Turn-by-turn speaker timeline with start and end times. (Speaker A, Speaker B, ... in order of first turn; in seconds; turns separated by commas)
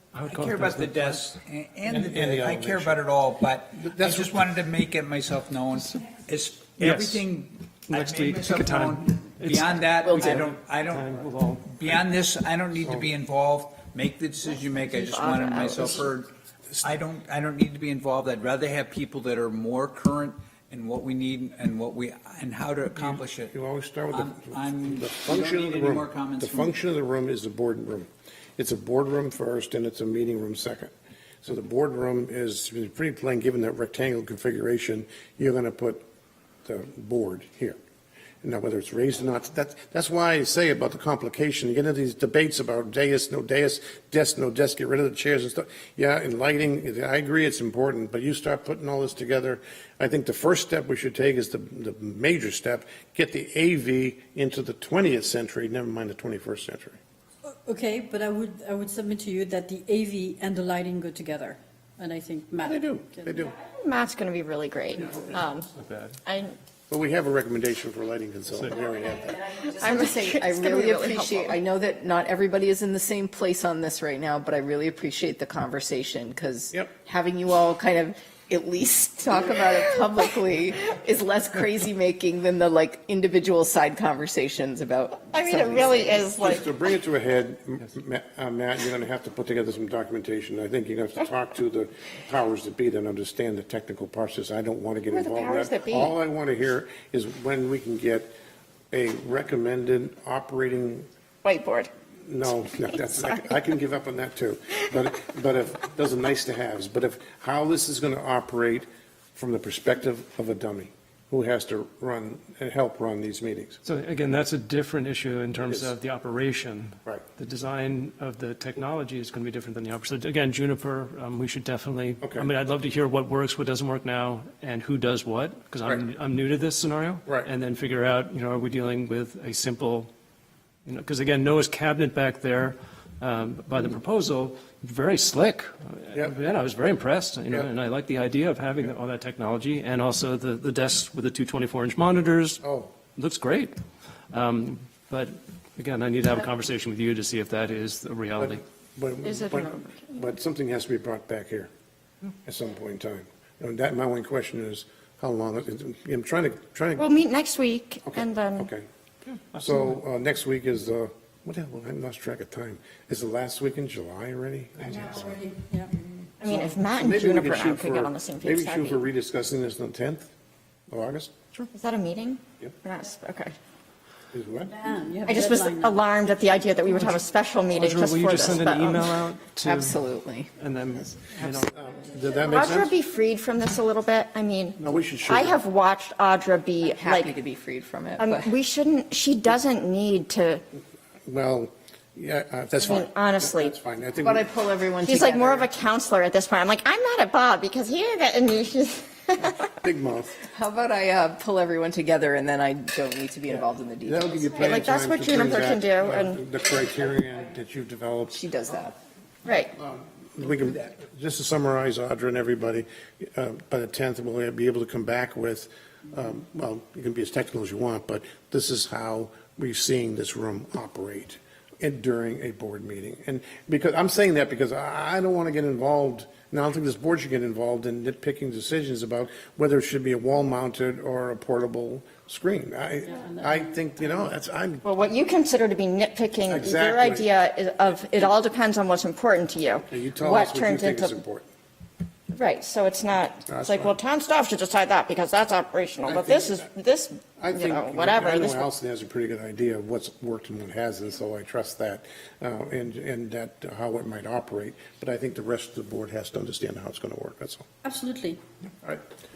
Speaker A: 0.1-1.2, Speaker B: 0.3-16.3, Speaker C: 1.9-3.0, Speaker C: 3.8-4.4, Speaker A: 6.8-7.3, Speaker A: 7.9-12.0, Speaker D: 10.1-10.5, Speaker E: 14.8-16.0, Speaker B: 16.8-23.5, Speaker C: 23.0-36.0, Speaker B: 24.1-26.8, Speaker C: 36.7-37.8, Speaker C: 38.4-57.0, Speaker F: 57.7-63.4, Speaker C: 62.6-63.5, Speaker E: 63.6-65.7, Speaker A: 65.8-66.1, Speaker E: 66.2-66.6, Speaker C: 66.9-69.4, Speaker D: 69.5-86.2, Speaker E: 69.8-71.6, Speaker E: 85.3-86.7, Speaker C: 86.3-98.3, Speaker E: 95.1-96.1, Speaker C: 98.9-101.1, Speaker E: 101.4-101.9, Speaker C: 102.2-113.8, Speaker A: 113.8-130.1, Speaker C: 122.2-122.5, Speaker A: 130.9-142.6, Speaker C: 142.6-142.9, Speaker A: 143.2-143.7, Speaker A: 144.3-148.6, Speaker C: 148.4-151.7, Speaker E: 149.2-150.2, Speaker C: 152.4-157.1, Speaker E: 157.0-158.7, Speaker C: 158.1-158.9, Speaker A: 159.5-159.9, Speaker C: 159.6-165.4, Speaker F: 164.9-166.0, Speaker E: 166.4-169.0, Speaker C: 166.5-170.3, Speaker C: 170.9-171.3, Speaker E: 171.5-173.6, Speaker C: 174.3-174.8, Speaker F: 174.7-176.1, Speaker E: 175.3-179.0, Speaker A: 177.8-180.0, Speaker D: 179.6-180.5, Speaker A: 180.6-181.7, Speaker C: 181.4-182.9, Speaker E: 182.4-187.3, Speaker C: 184.8-185.6, Speaker D: 186.8-188.5, Speaker E: 188.2-190.6, Speaker C: 191.3-194.5, Speaker E: 192.8-193.8, Speaker D: 194.2-195.7, Speaker E: 195.0-199.7, Speaker C: 199.7-200.4, Speaker D: 200.4-204.9, Speaker C: 203.5-208.4, Speaker E: 204.6-206.4, Speaker D: 208.3-209.0, Speaker E: 209.4-209.7, Speaker C: 209.7-234.8, Speaker F: 233.1-233.8, Speaker E: 234.8-241.2, Speaker C: 236.5-237.3, Speaker C: 239.9-241.5, Speaker E: 242.3-248.7, Speaker C: 243.5-243.9, Speaker C: 246.1-246.7, Speaker C: 247.4-257.7, Speaker F: 257.8-258.4